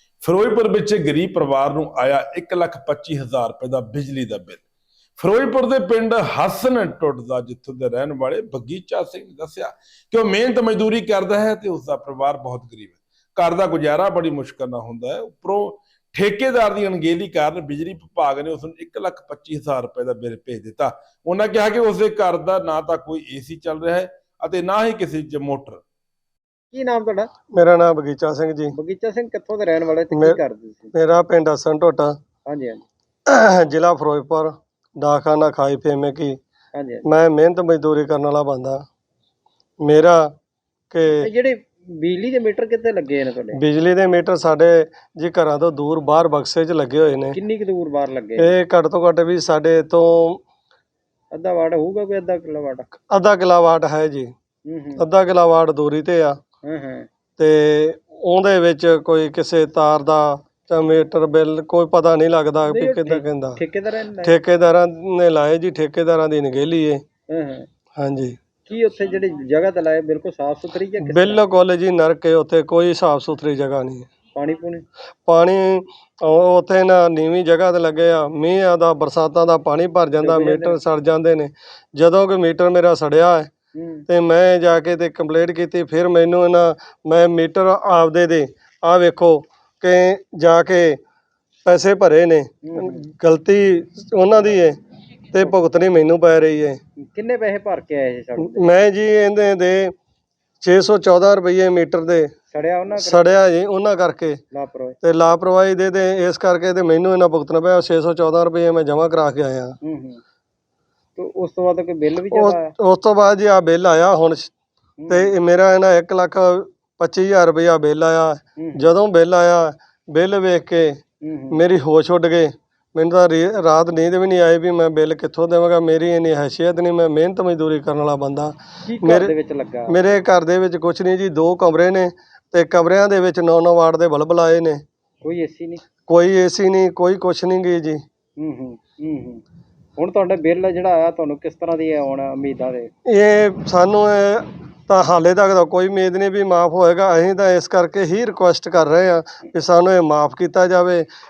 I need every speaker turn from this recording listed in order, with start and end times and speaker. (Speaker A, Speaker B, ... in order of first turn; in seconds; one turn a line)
Speaker A: 0.2-4.6
Speaker A: 5.2-25.8
Speaker B: 26.7-27.3
Speaker C: 27.5-28.7
Speaker B: 28.7-30.9
Speaker C: 30.1-30.4
Speaker C: 30.9-32.2
Speaker B: 32.5-32.8
Speaker C: 33.3-36.4
Speaker B: 36.8-37.0
Speaker C: 37.0-38.8
Speaker C: 39.8-40.3
Speaker C: 40.9-41.3
Speaker B: 41.1-43.6
Speaker C: 43.5-47.4
Speaker B: 47.3-48.5
Speaker C: 48.4-50.4
Speaker B: 51.3-52.9
Speaker C: 53.1-54.3
Speaker B: 54.7-55.0
Speaker C: 55.0-56.4
Speaker B: 56.6-57.1
Speaker C: 57.4-63.6
Speaker B: 62.6-64.4
Speaker C: 64.2-67.0
Speaker B: 67.3-67.7
Speaker C: 68.0-68.4
Speaker B: 68.7-71.4
Speaker C: 71.0-74.1
Speaker B: 74.3-74.8
Speaker C: 75.2-83.5
Speaker B: 80.2-80.8
Speaker B: 83.7-84.0
Speaker C: 84.1-91.0
Speaker C: 91.7-94.8
Speaker B: 92.6-93.1
Speaker C: 95.3-96.8
Speaker B: 97.0-98.6
Speaker C: 98.4-99.9
Speaker C: 100.6-102.3
Speaker B: 102.5-103.4
Speaker C: 103.0-104.4
Speaker B: 104.5-105.0
Speaker C: 105.0-109.7
Speaker B: 109.8-110.2
Speaker B: 111.2-112.7
Speaker C: 112.3-114.5
Speaker B: 115.0-115.3
Speaker C: 115.1-129.3
Speaker B: 118.6-118.9
Speaker B: 121.2-121.7
Speaker B: 128.8-130.0
Speaker C: 129.9-134.8
Speaker B: 135.2-135.8
Speaker C: 136.1-138.0
Speaker B: 138.4-139.4
Speaker B: 140.0-142.9
Speaker C: 143.1-151.0